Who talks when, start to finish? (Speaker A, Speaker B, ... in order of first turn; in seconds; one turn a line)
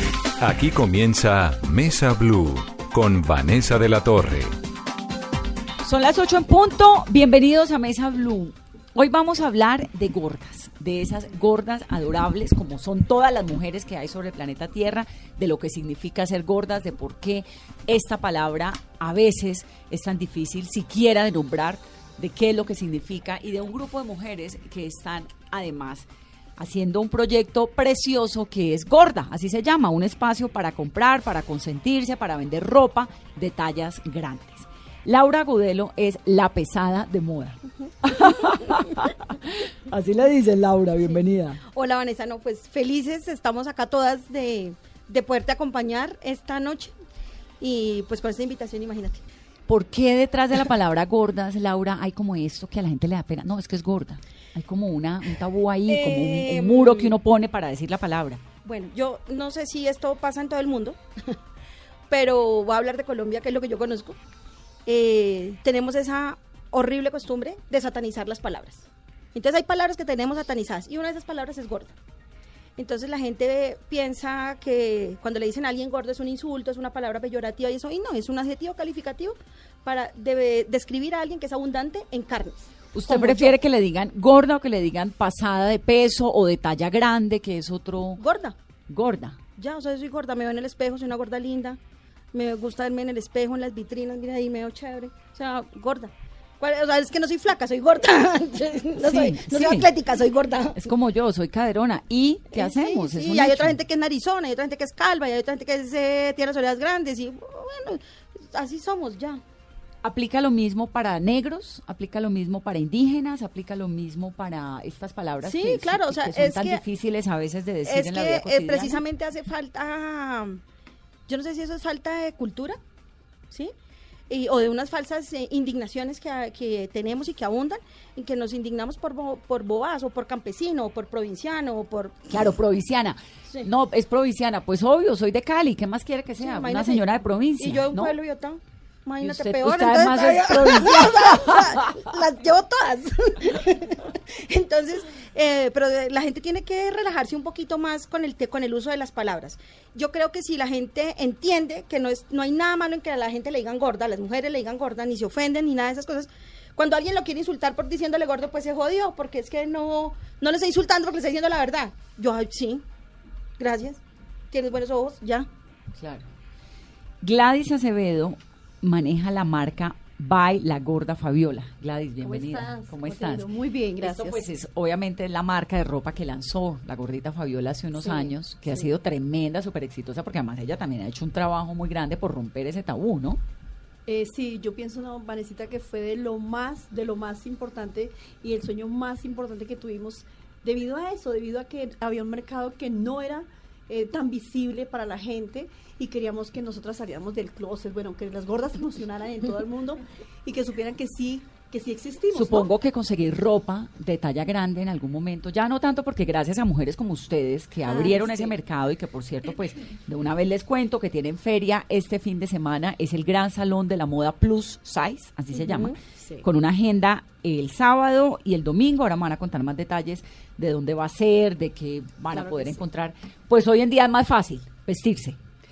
Speaker A: 0.4-4.5
Speaker B: 5.8-26.1
Speaker B: 26.6-41.6
Speaker C: 41.7-46.9
Speaker C: 47.6-49.2
Speaker B: 49.7-58.4
Speaker C: 55.9-57.2
Speaker C: 58.6-61.4
Speaker C: 62.1-64.2
Speaker C: 64.8-71.9
Speaker C: 72.8-83.6
Speaker B: 82.9-88.2
Speaker C: 88.2-88.5
Speaker B: 88.9-89.4
Speaker C: 89.6-91.8
Speaker C: 92.3-100.9
Speaker B: 99.0-99.9
Speaker B: 100.8-103.7
Speaker C: 102.5-109.4
Speaker B: 110.0-119.0
Speaker C: 115.4-116.8
Speaker C: 117.8-120.6
Speaker C: 121.3-122.8
Speaker C: 124.3-132.3
Speaker B: 132.3-138.1
Speaker C: 136.4-137.1
Speaker C: 137.6-162.8
Speaker B: 139.2-142.1
Speaker C: 163.6-164.0
Speaker C: 164.5-165.5
Speaker B: 166.0-166.2
Speaker B: 167.2-183.4
Speaker D: 172.2-174.5
Speaker D: 177.9-178.9
Speaker D: 184.1-202.7
Speaker B: 202.3-225.4
Speaker D: 207.9-208.5
Speaker C: 215.6-216.0
Speaker D: 215.7-216.5
Speaker D: 222.3-222.8